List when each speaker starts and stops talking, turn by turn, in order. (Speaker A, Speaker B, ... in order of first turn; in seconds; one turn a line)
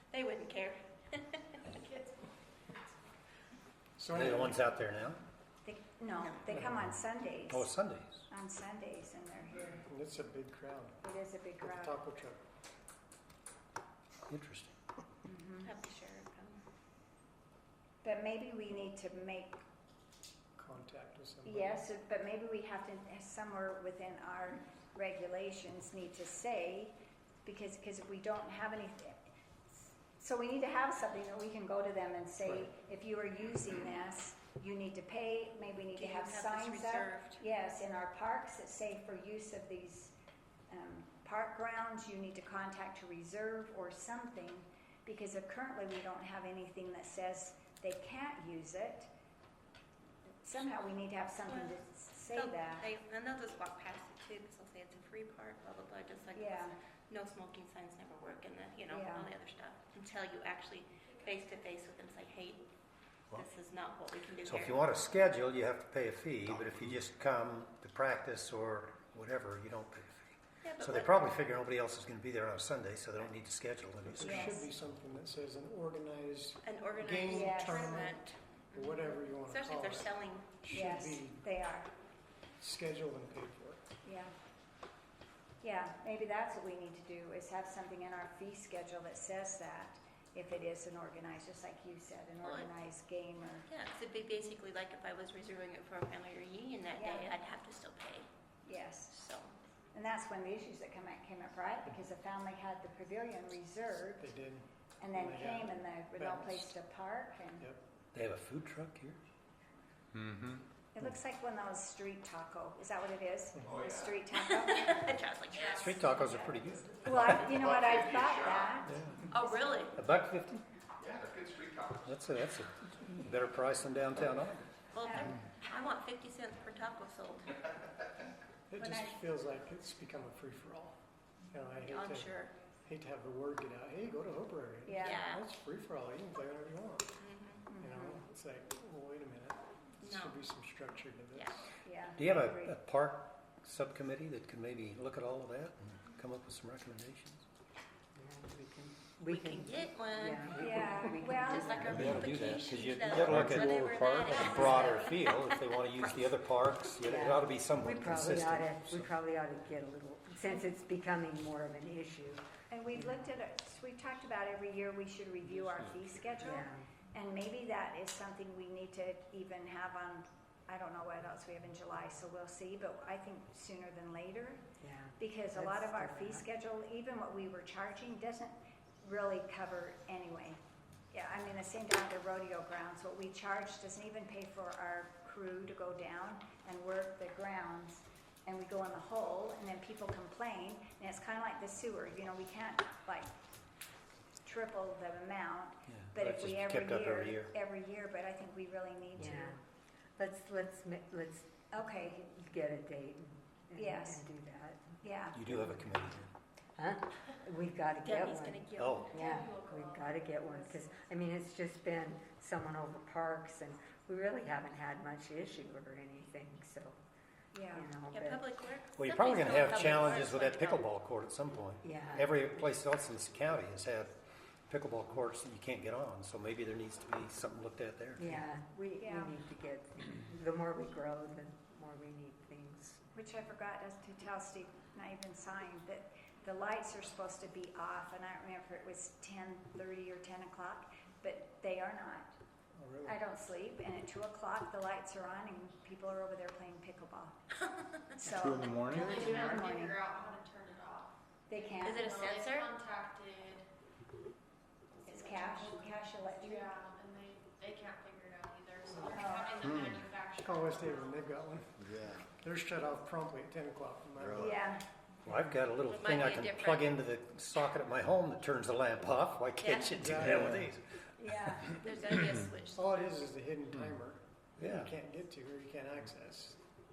Speaker A: 0.1-2.1
Speaker B: 4.0-4.7
Speaker C: 4.1-5.2
Speaker D: 5.6-7.7
Speaker B: 6.5-6.8
Speaker C: 7.5-8.3
Speaker D: 8.3-9.8
Speaker B: 9.8-11.0
Speaker D: 11.0-12.0
Speaker B: 11.6-12.4
Speaker C: 14.3-14.7
Speaker D: 15.2-15.7
Speaker A: 15.6-16.6
Speaker D: 18.0-19.6
Speaker B: 20.6-21.9
Speaker D: 21.4-29.2
Speaker D: 30.1-40.1
Speaker A: 36.0-37.4
Speaker D: 40.7-49.1
Speaker D: 50.4-52.9
Speaker A: 51.5-51.8
Speaker A: 52.3-62.7
Speaker D: 56.3-56.8
Speaker D: 58.9-59.3
Speaker A: 63.3-64.9
Speaker C: 64.4-74.6
Speaker A: 70.6-71.3
Speaker B: 74.0-81.5
Speaker D: 74.2-74.7
Speaker A: 76.6-80.5
Speaker D: 77.2-78.1
Speaker D: 80.7-81.9
Speaker B: 82.6-83.8
Speaker D: 84.0-84.3
Speaker D: 85.6-93.7
Speaker A: 92.4-92.8
Speaker A: 93.7-98.3
Speaker D: 97.0-97.3
Speaker D: 98.6-99.1
Speaker A: 99.1-99.5
Speaker D: 99.9-104.2
Speaker B: 104.2-106.8
Speaker D: 105.0-107.7
Speaker C: 108.1-109.2
Speaker D: 110.9-119.9
Speaker B: 113.5-113.8
Speaker E: 113.6-114.2
Speaker A: 114.4-116.0
Speaker F: 115.5-115.9
Speaker C: 115.6-117.6
Speaker E: 117.5-118.8
Speaker C: 118.9-119.2
Speaker A: 119.3-120.0
Speaker C: 120.0-120.6
Speaker E: 121.0-122.2
Speaker C: 122.0-124.6
Speaker A: 124.9-127.5
Speaker D: 125.0-125.4
Speaker B: 128.7-131.0
Speaker D: 128.8-129.2
Speaker B: 131.5-137.1
Speaker A: 131.9-132.5
Speaker D: 134.8-135.2
Speaker A: 135.0-135.4
Speaker A: 137.2-137.7
Speaker D: 137.7-138.2
Speaker B: 137.8-141.7
Speaker A: 140.0-140.4
Speaker A: 141.3-141.7
Speaker D: 141.8-142.8
Speaker C: 142.2-147.4
Speaker G: 148.2-152.2
Speaker A: 149.3-155.7
Speaker D: 150.6-151.8
Speaker C: 151.9-159.1
Speaker H: 152.8-154.9
Speaker G: 157.0-163.3
Speaker D: 162.7-174.6
Speaker G: 166.4-166.8
Speaker G: 174.8-176.4
Speaker D: 175.2-180.6
Speaker D: 181.1-193.3
Speaker D: 194.4-199.6
Speaker C: 195.9-197.5
Speaker G: 199.2-199.6
Speaker G: 200.2-206.2
Speaker D: 201.7-202.2
Speaker D: 203.8-204.2
Speaker D: 205.0-205.4
Speaker C: 205.3-206.3
Speaker G: 206.8-217.0
Speaker A: 208.0-209.4
Speaker C: 208.8-209.1
Speaker F: 209.2-210.7
Speaker D: 217.5-217.9
Speaker G: 217.7-218.4
Speaker A: 218.1-220.8
Speaker C: 219.0-224.2
Speaker G: 221.8-222.3
Speaker C: 224.7-228.4
Speaker G: 228.2-233.0
Speaker D: 229.0-229.3
Speaker D: 233.1-242.3
Speaker B: 242.7-243.2
Speaker D: 243.0-247.3
Speaker D: 248.2-250.0
Speaker H: 248.3-249.5
Speaker F: 248.9-253.7
Speaker D: 251.5-252.1
Speaker A: 251.8-252.7
Speaker D: 255.0-256.8
Speaker F: 255.1-261.2
Speaker D: 259.1-260.0
Speaker H: 259.6-260.0
Speaker B: 260.4-261.8
Speaker H: 261.8-262.2
Speaker B: 262.3-264.7
Speaker H: 264.2-264.5
Speaker D: 264.3-264.9
Speaker C: 265.2-270.8
Speaker A: 265.9-266.9
Speaker A: 269.6-270.5
Speaker B: 269.9-270.7
Speaker D: 271.2-272.5
Speaker A: 271.8-273.1
Speaker B: 272.7-276.6
Speaker C: 274.6-274.9